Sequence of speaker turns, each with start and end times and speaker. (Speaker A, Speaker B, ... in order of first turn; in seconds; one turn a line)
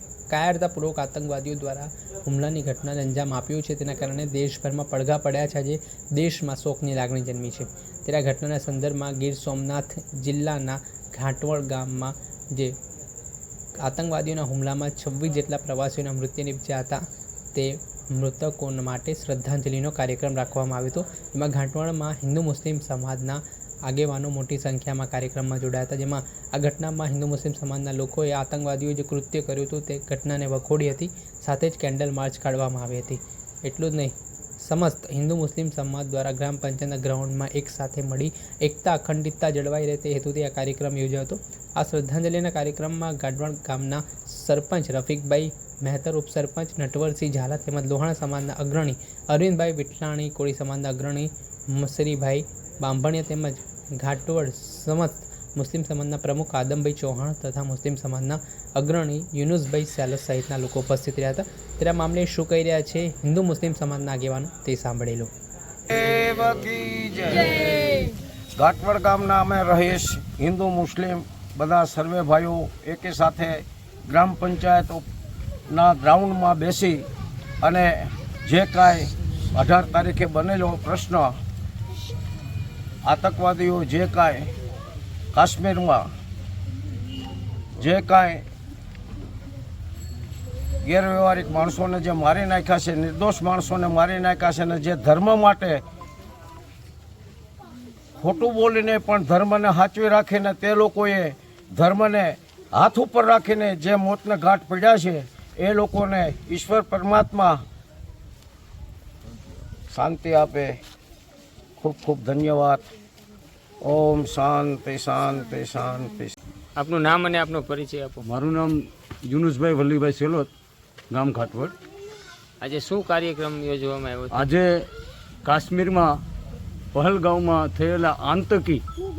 Speaker A: 0.3-12.8
Speaker A: 13.8-17.0
Speaker A: 17.5-65.3
Speaker B: 65.9-68.0
Speaker B: 68.6-75.0
Speaker B: 75.7-77.0
Speaker B: 77.6-81.3
Speaker B: 83.0-84.5
Speaker B: 85.3-86.1
Speaker B: 87.8-88.4
Speaker B: 90.8-95.8
Speaker B: 98.2-107.6
Speaker B: 109.9-110.8
Speaker B: 111.8-112.8
Speaker B: 113.8-116.3
Speaker C: 116.8-118.2
Speaker D: 118.2-120.5
Speaker D: 121.1-121.8
Speaker C: 122.6-124.3
Speaker D: 124.3-124.9
Speaker D: 125.4-126.2
Speaker D: 126.9-128.8